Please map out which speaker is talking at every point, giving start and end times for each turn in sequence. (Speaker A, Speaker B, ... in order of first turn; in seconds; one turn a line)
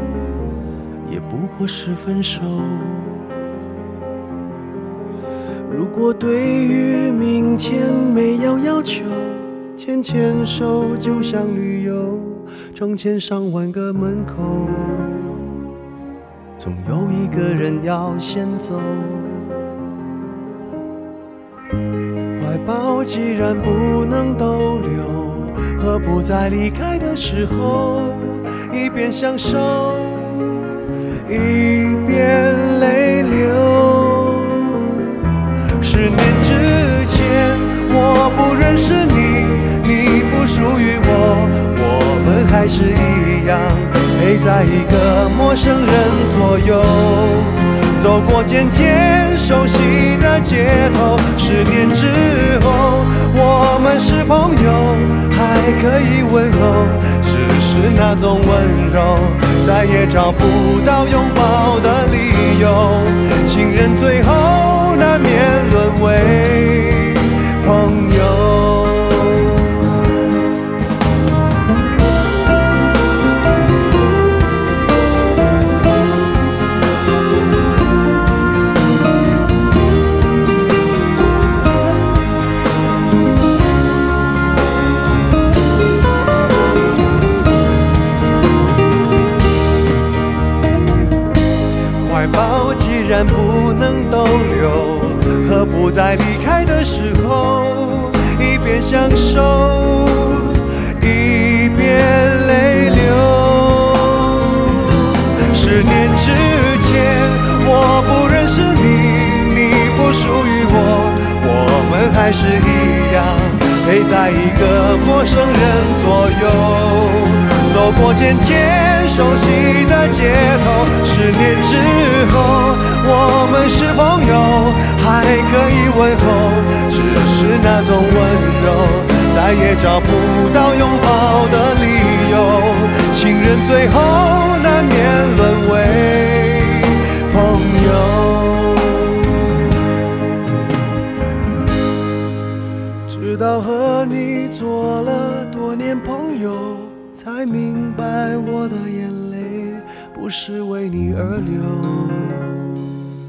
Speaker A: 1.0-3.3
Speaker A: 5.7-15.3
Speaker A: 16.6-19.6
Speaker A: 22.4-35.2
Speaker A: 35.8-69.5
Speaker A: 92.0-139.3
Speaker A: 143.1-152.9